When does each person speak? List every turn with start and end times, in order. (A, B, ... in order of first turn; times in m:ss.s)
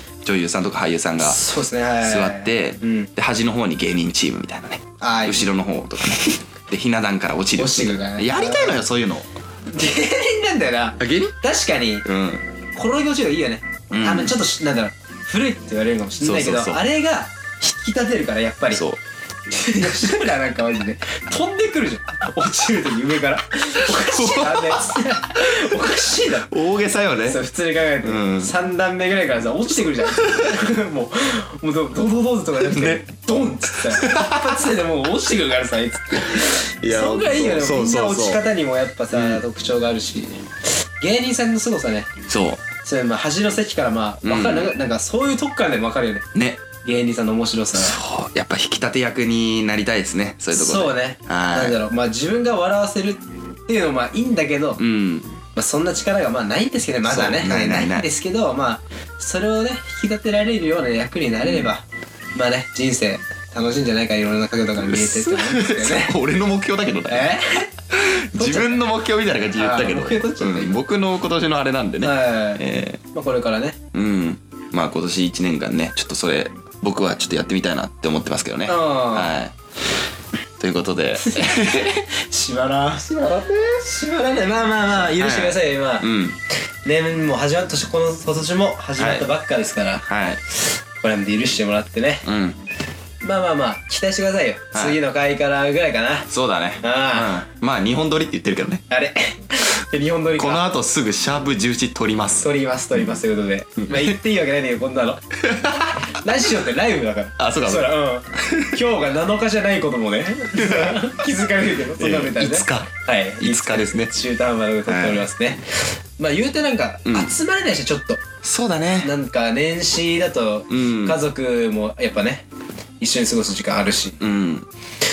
0:00.2-0:01.4 A
0:01.2-0:03.1 B
0:02.0-0:09.3 A
0:05.0-0:05.5 B
0:07.6-0:08.8 B
0:09.7-0:12.1 B
0:11.0-0:11.4 A
0:12.0-0:12.4 A
0:12.8-0:18.8 B
0:13.9-0:14.4 A
0:16.2-0:16.8 A
0:18.7-0:19.0 A
0:19.5-0:26.5 B
0:23.8-0:27.4 A
0:27.2-0:40.4 B
0:28.0-0:28.5 A
0:30.0-0:30.6 A
0:32.6-0:33.0 A
0:33.8-0:34.7 A
0:36.2-0:38.4 A
0:39.1-0:39.4 A
0:41.0-0:42.1 B
0:42.3-0:42.6 A
0:42.8-0:46.3 B
0:44.2-0:44.7 A
0:46.3-0:46.6 A
0:46.8-0:48.0 B
0:47.8-0:51.8 A
0:50.5-0:54.8 B
0:54.8-0:55.3 A
0:55.5-1:06.2 B
0:57.0-0:58.1 A
1:01.4-1:01.7 A
1:04.8-1:07.3 A
1:07.1-1:07.7 B
1:07.9-1:13.0 A
1:08.3-1:08.8 B
1:09.6-1:10.8 B
1:12.0-1:13.8 B
1:13.9-1:19.5 A
1:18.7-1:19.3 B
1:20.6-1:22.1 A
1:21.2-1:26.1 B
1:24.9-1:26.4 A
1:26.8-1:30.1 B
1:29.0-1:29.3 A
1:30.0-1:30.4 A
1:31.0-1:32.2 B
1:32.2-1:32.6 A
1:33.2-1:36.3 B
1:36.3-1:38.8 A
1:36.8-1:37.4 B
1:38.9-1:40.6 B
1:40.4-1:43.2 A
1:42.4-1:45.2 B
1:43.9-1:44.2 A
1:45.4-1:46.2 A
1:45.8-1:58.2 B
1:47.4-1:48.8 A
1:50.5-1:51.4 A
1:52.0-1:54.1 A
1:54.9-1:55.3 A
1:57.1-1:57.3 A
1:58.4-1:59.1 A
1:59.0-2:02.5 B
2:00.7-2:01.2 A
2:03.0-2:04.2 B
2:04.2-2:04.7 A